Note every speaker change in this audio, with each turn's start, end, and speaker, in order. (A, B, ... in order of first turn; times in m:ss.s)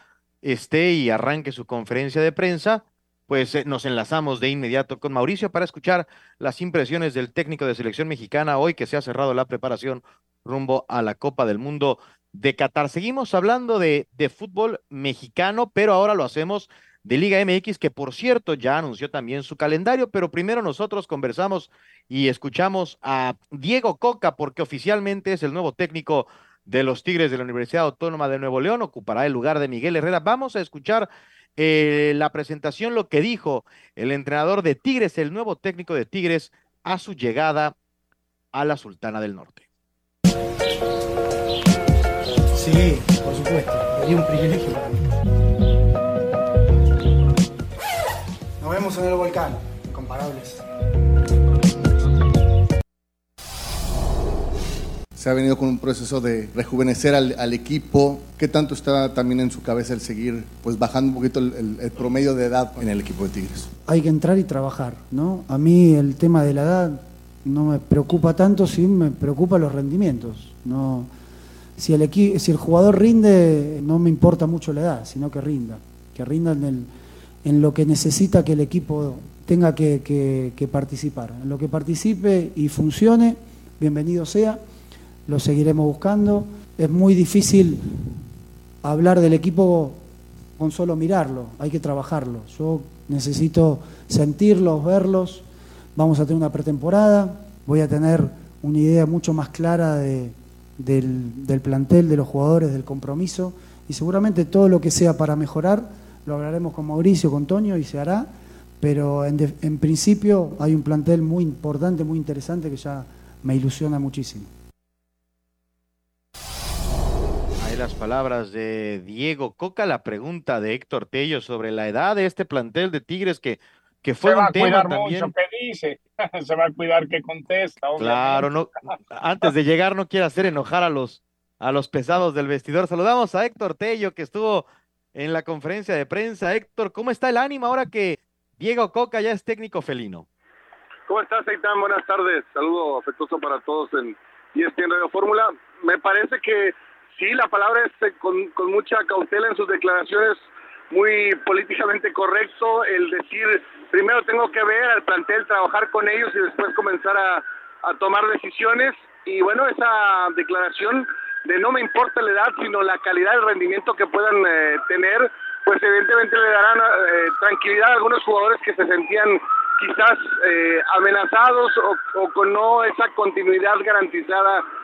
0:00.4-0:37.7 A
0:38.5-0:39.6 A
0:42.5-0:45.0 B
0:48.6-0:50.6 B
0:55.1-1:03.7 C
1:03.9-1:11.1 B
1:11.8-1:16.9 B
1:17.4-1:24.6 B
1:25.3-1:27.8 B
1:28.8-1:30.0 B
1:30.6-1:35.4 B
1:36.0-1:48.3 B
1:48.8-1:54.5 B
1:57.6-2:05.3 A
2:04.2-2:08.5 D
2:08.0-2:20.2 A
2:21.1-2:54.6 E